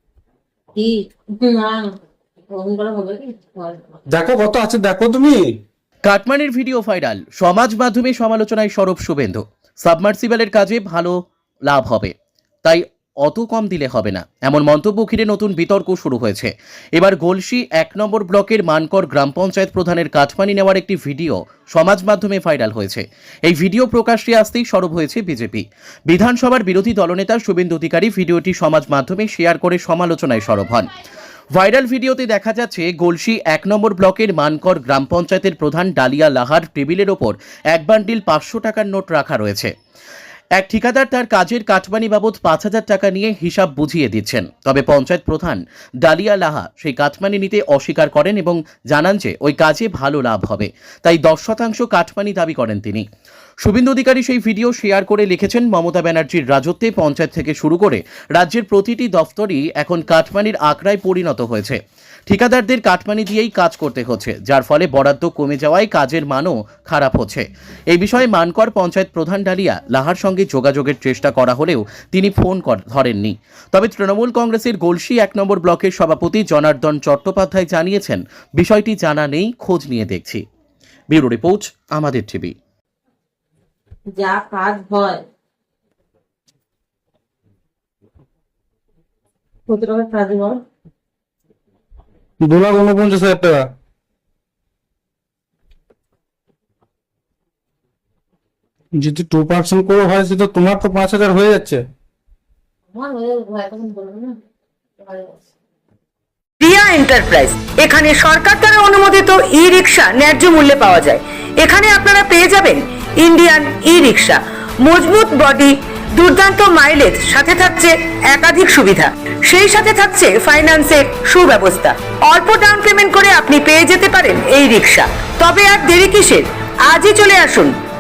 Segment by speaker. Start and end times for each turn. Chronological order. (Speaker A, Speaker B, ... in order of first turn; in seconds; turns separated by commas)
Speaker A: 0.8-1.9, Speaker A: 2.5-3.9, Speaker B: 4.1-5.4, Speaker C: 6.0-11.2, Speaker C: 11.7-12.1, Speaker C: 12.7-30.9, Speaker C: 31.6-39.7, Speaker C: 40.6-53.0, Speaker C: 53.6-80.4, Speaker C: 81.1-82.5, Speaker A: 84.1-85.2, Speaker A: 89.7-90.6, Speaker B: 92.4-93.7, Speaker B: 99.0-101.8, Speaker A: 102.9-104.4, Speaker A: 105.0-105.4, Speaker D: 106.6-127.7